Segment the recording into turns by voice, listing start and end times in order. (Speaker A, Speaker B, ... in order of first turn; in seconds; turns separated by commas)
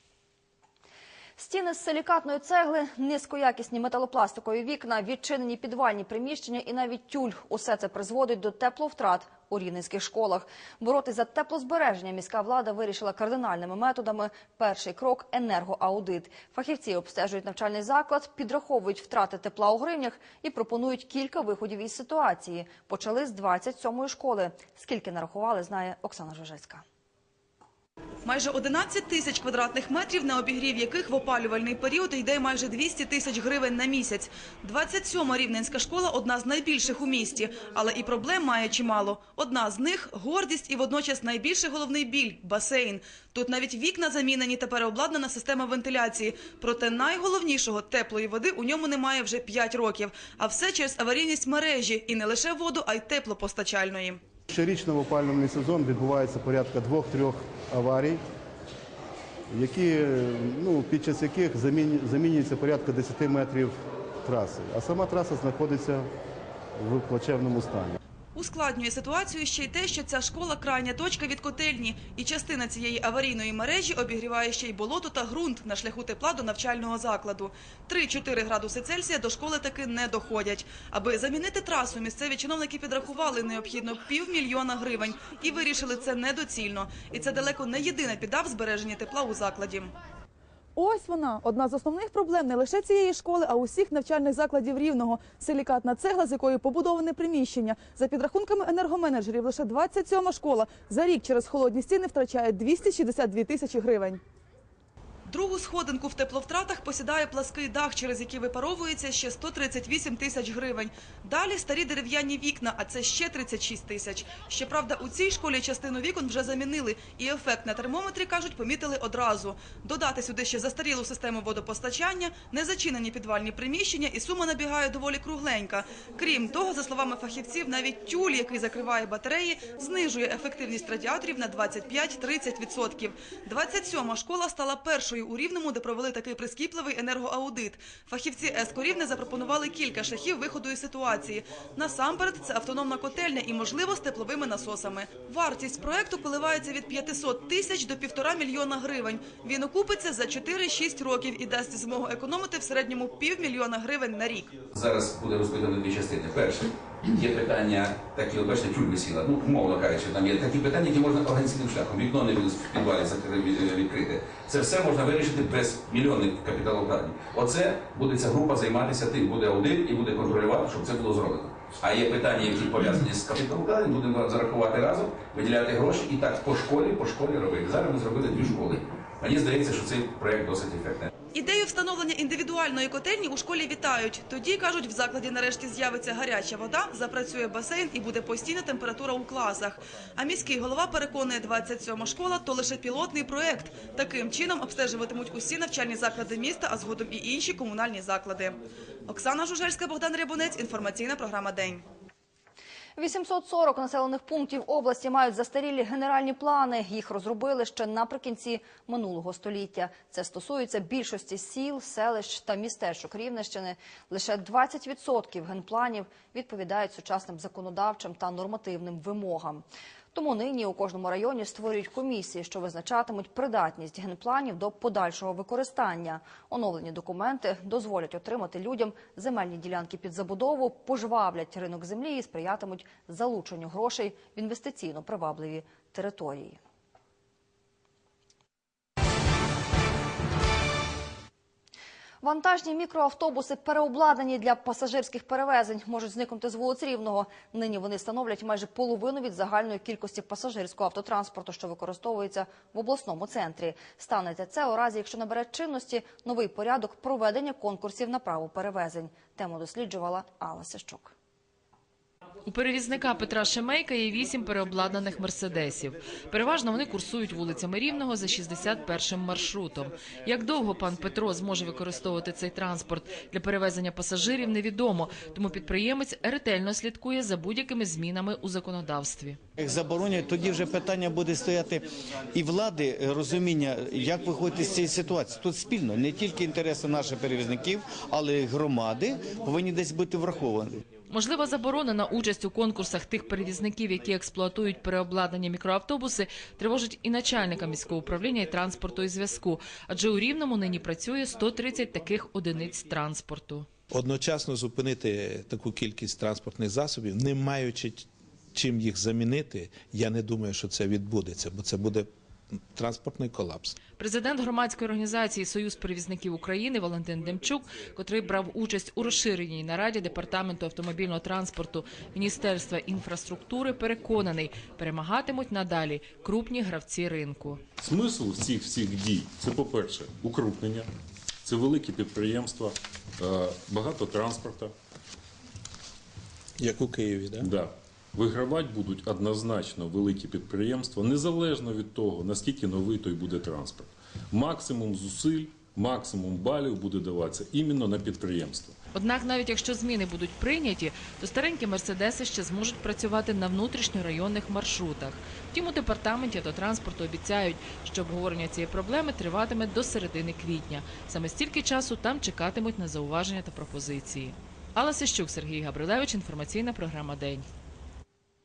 Speaker A: 1.4-26.8, Speaker B: 28.2-54.2, Speaker C: 54.5-58.2, Speaker C: 59.5-66.1, Speaker C: 66.8-68.0, Speaker B: 68.4-89.9, Speaker D: 90.8-104.2, Speaker B: 105.3-154.6, Speaker E: 154.7-181.1, Speaker B: 181.3-201.8, Speaker A: 202.9-236.6, Speaker A: 242.2-261.1, Speaker F: 262.4-279.4, Speaker G: 279.6-281.8, Speaker G: 282.3-290.8, Speaker F: 291.1-303.7, Speaker H: 303.9-312.1, Speaker H: 312.8-313.8, Speaker F: 314.0-327.6, Speaker I: 327.8-330.9, Speaker I: 331.4-334.7, Speaker H: 336.6-337.5, Speaker I: 337.4-348.8, Speaker F: 348.9-367.5